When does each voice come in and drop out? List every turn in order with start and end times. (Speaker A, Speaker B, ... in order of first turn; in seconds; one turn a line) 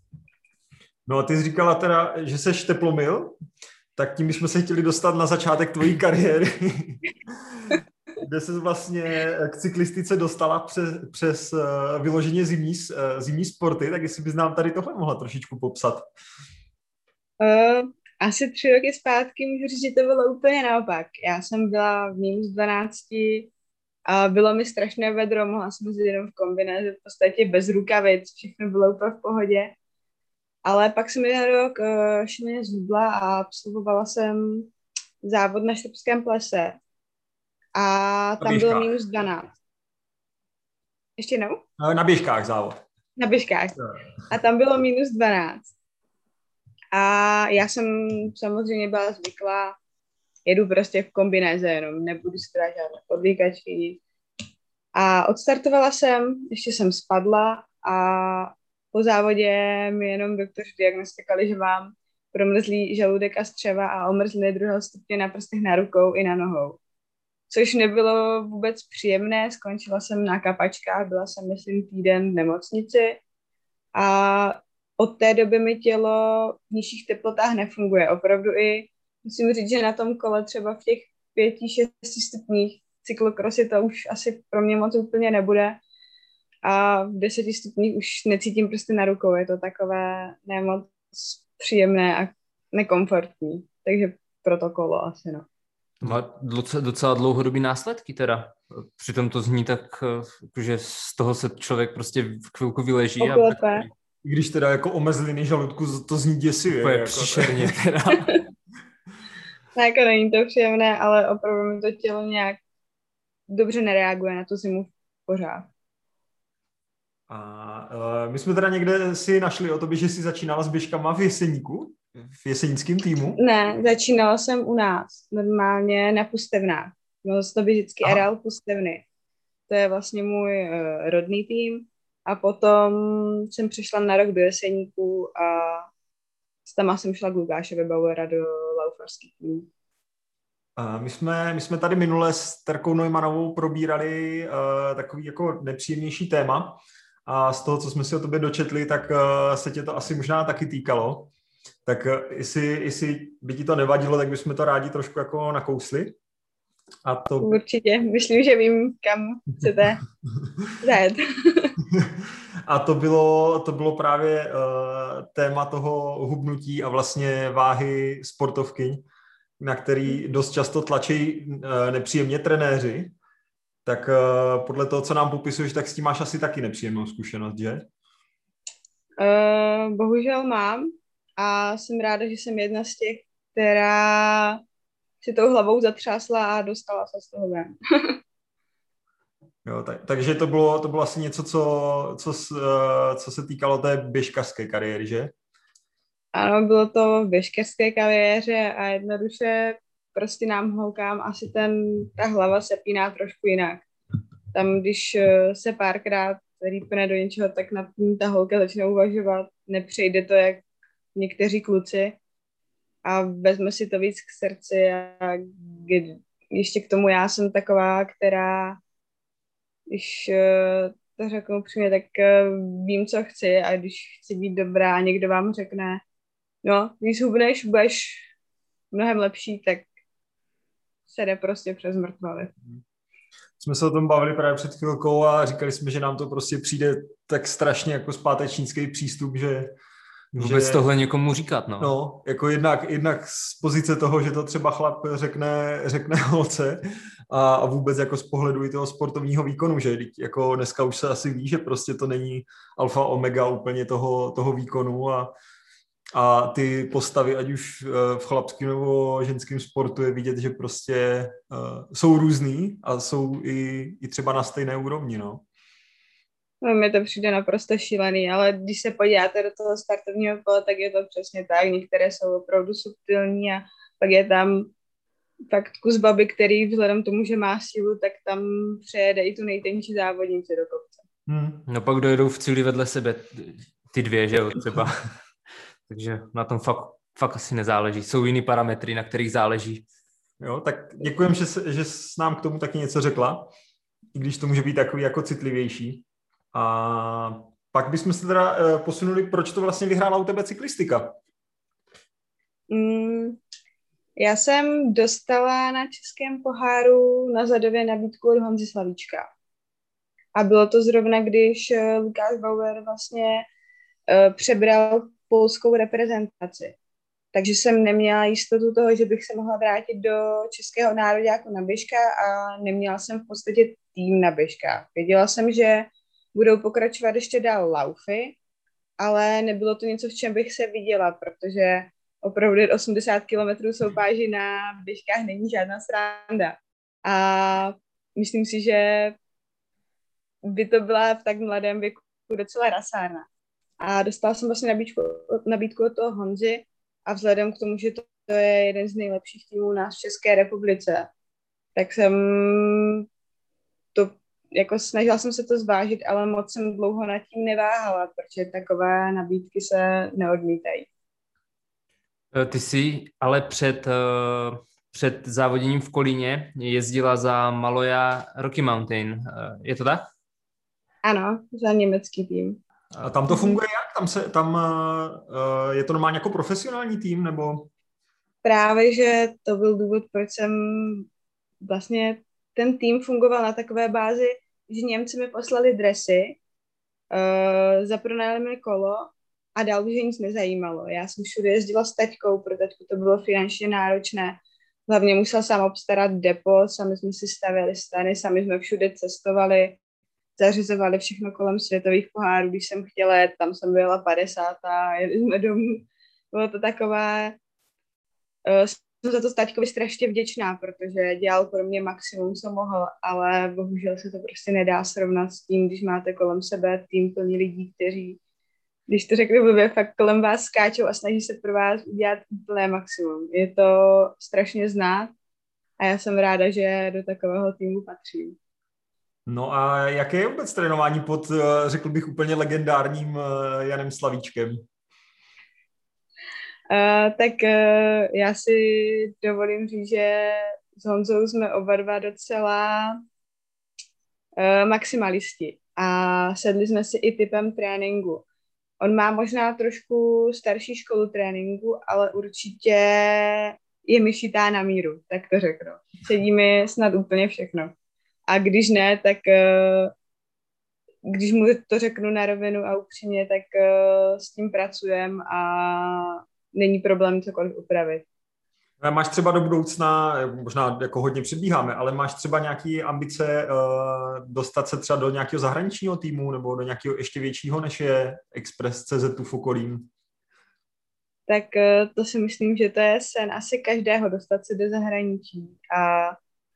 Speaker A: 1.1-3.4
Speaker A: 4.0-16.1
Speaker B: 17.4-23.5
Speaker B: 24.1-29.7
Speaker B: 30.6-34.7
Speaker B: 35.2-36.8
Speaker B: 37.8-39.5
Speaker A: 38.4-38.9
Speaker B: 41.2-41.6
Speaker A: 41.8-42.8
Speaker B: 43.2-43.8
Speaker B: 44.3-45.7
Speaker B: 46.9-49.7
Speaker B: 50.5-54.0
Speaker B: 55.0-66.8
Speaker B: 67.5-73.2
Speaker B: 74.0-85.8
Speaker B: 86.7-95.5
Speaker C: 96.0-103.9
Speaker B: 103.2-103.9
Speaker A: 104.2-107.7
Speaker C: 106.8-108.3
Speaker B: 109.7-112.6
Speaker B: 113.5-115.7
Speaker A: 117.3-123.4
Speaker B: 123.4-129.0
Speaker B: 129.7-135.9
Speaker B: 136.6-139.7
Speaker A: 140.8-151.3
Speaker A: 151.8-156.1
Speaker A: 157.0-157.5
Speaker B: 157.4-160.0
Speaker B: 160.8-161.8
Speaker A: 161.9-169.0
Speaker A: 169.6-173.1
Speaker A: 173.8-177.8
Speaker B: 179.2-184.6
Speaker B: 185.2-188.2
Speaker A: 189.6-195.3
Speaker B: 196.3-203.8
Speaker B: 204.5-210.6
Speaker B: 211.1-212.2
Speaker B: 213.1-218.8
Speaker B: 219.9-226.0
Speaker B: 226.6-228.3
Speaker B: 228.9-229.9
Speaker B: 231.1-232.5
Speaker A: 233.6-239.7
Speaker A: 240.3-240.8
Speaker C: 240.3-241.9
Speaker A: 241.8-255.3
Speaker A: 256.1-265.4
Speaker B: 266.6-274.7
Speaker B: 275.5-281.0
Speaker A: 281.3-281.6
Speaker C: 281.7-285.1
Speaker C: 285.9-289.8
Speaker A: 290.4-293.5
Speaker A: 294.1-301.1
Speaker B: 302.7-303.4
Speaker B: 304.2-309.3
Speaker B: 310.4-313.4
Speaker B: 314.1-316.7
Speaker B: 317.3-328.4
Speaker B: 329.0-339.1
Speaker B: 340.5-343.2
Speaker B: 343.8-351.1
Speaker B: 351.7-353.0
Speaker B: 353.9-360.9
Speaker C: 362.3-370.1
Speaker B: 371.0-372.6
Speaker A: 372.9-377.7
Speaker B: 373.3-373.6
Speaker B: 378.4-381.1
Speaker B: 381.6-386.4
Speaker B: 387.1-399.8
Speaker B: 400.4-407.3
Speaker B: 408.4-418.2
Speaker B: 418.9-425.1
Speaker B: 425.8-428.4
Speaker A: 429.2-434.6
Speaker B: 436.7-443.0
Speaker B: 444.4-448.2
Speaker B: 448.8-457.7
Speaker B: 458.3-459.9
Speaker B: 461.1-468.0
Speaker A: 468.8-479.9
Speaker B: 481.3-486.1